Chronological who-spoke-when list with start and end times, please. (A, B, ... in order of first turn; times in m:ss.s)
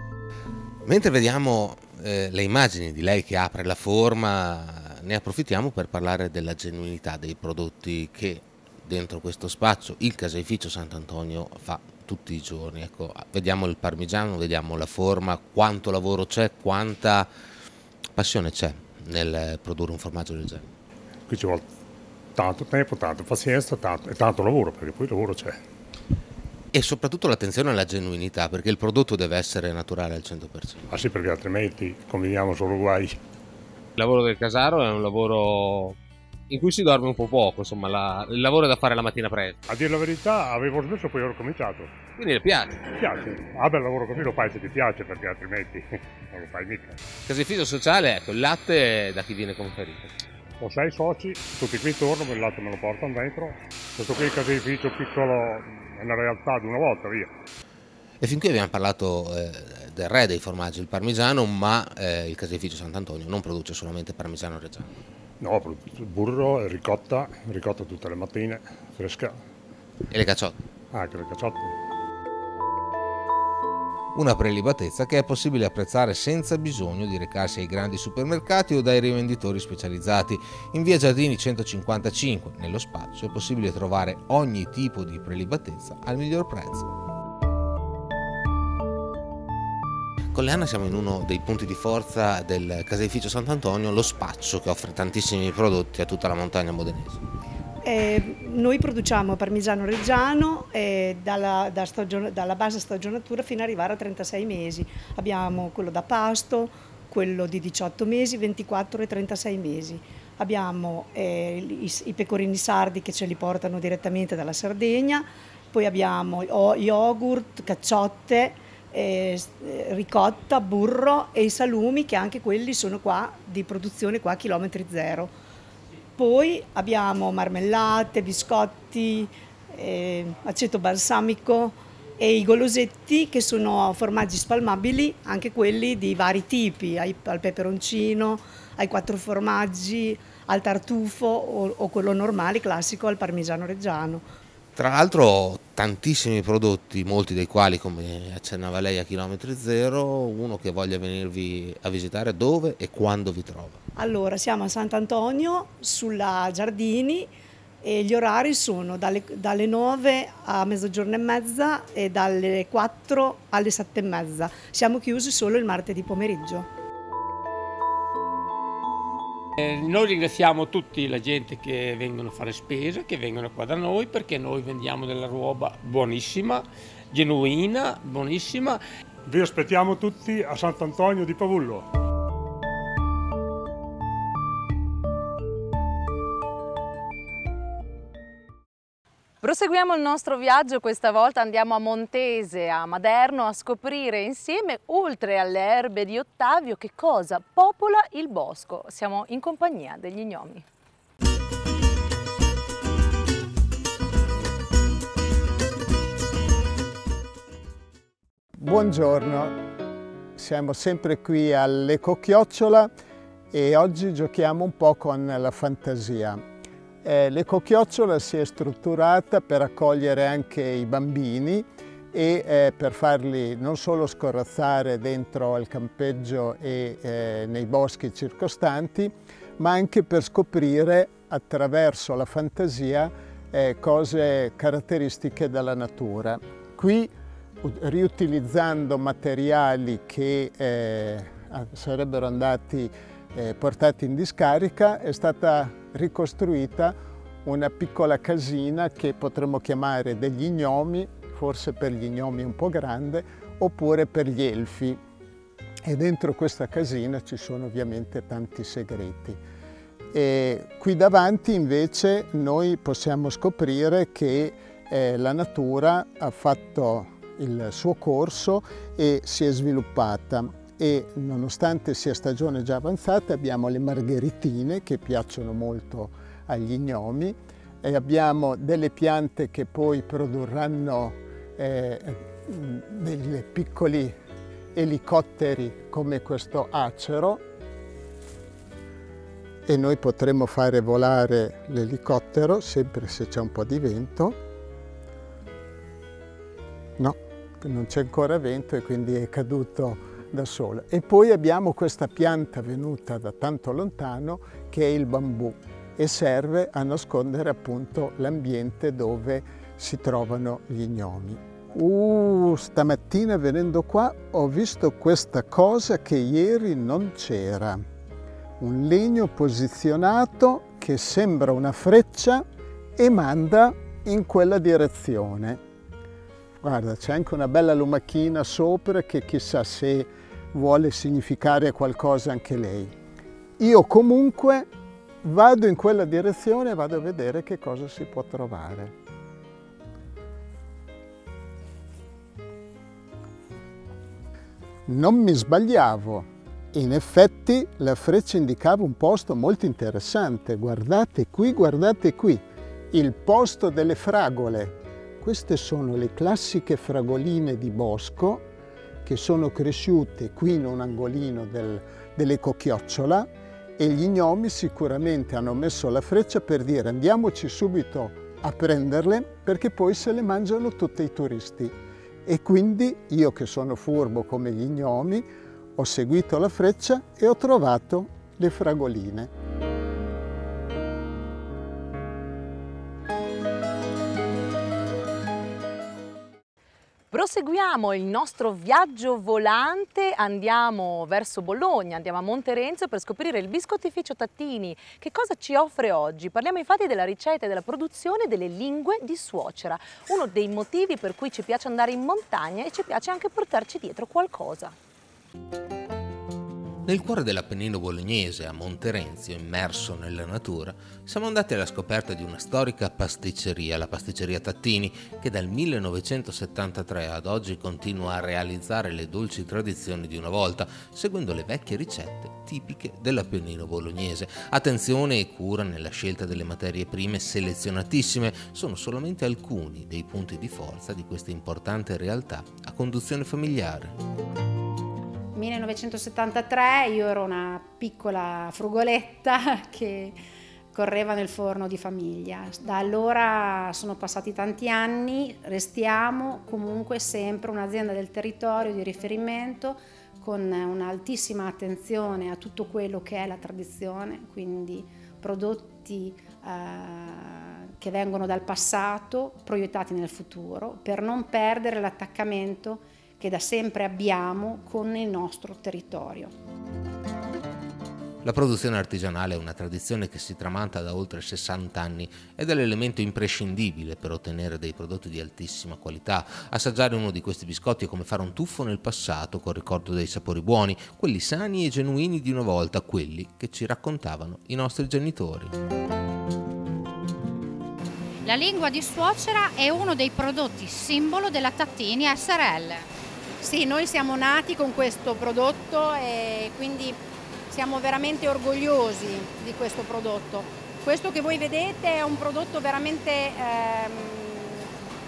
0:00.8-0:17.3 A
0:18.2-0:20.7 A
0:21.3-0:21.6 B
0:22.4-0:25.5 B
0:26.7-0:31.0 A
0:31.0-0:33.0 B
0:34.0-0:36.0 A
0:36.5-0:39.6 A
0:39.7-0:41.9 B
0:42.2-0:42.9 A
0:43.0-0:45.8 B
0:46.4-0:47.0 B
0:47.3-0:50.1 A
0:50.6-0:57.3 B
0:58.2-1:04.9 A
1:05.4-1:09.3 B
1:10.1-1:10.6 A
1:10.9-1:11.7 B
1:14.1-1:26.9 A
1:30.3-1:37.2 A
1:37.8-2:05.3 C
2:06.2-2:24.3 C
2:24.8-2:33.8 A
2:34.0-2:46.7 C
2:49.6-2:58.8 D
2:59.3-3:01.8 B
3:09.4-3:20.6 E
3:28.6-3:29.5 F
3:30.4-3:32.9 F
3:33.5-3:36.4 F
3:37.0-3:57.1 F
3:57.6-4:06.9 F
4:07.4-4:15.0 F
4:15.9-4:19.4 F
4:20.1-4:44.1 F
4:44.8-4:47.4 F
4:49.7-4:54.4 F
4:57.0-5:17.8 F
5:18.6-5:22.4 F
5:23.0-5:25.6 F
5:26.6-5:32.9 F
5:33.6-5:34.7 F
5:35.2-5:38.9 F
5:44.9-5:58.4 F
5:59.1-6:11.8 F
6:12.3-6:15.3 F
6:15.8-6:19.3 F
6:27.1-6:44.7 E
6:46.9-7:13.9 A
7:15.3-7:20.2 G
7:20.7-7:46.3 G
7:48.2-8:05.5 A
8:08.2-8:12.9 H
8:13.4-8:24.7 G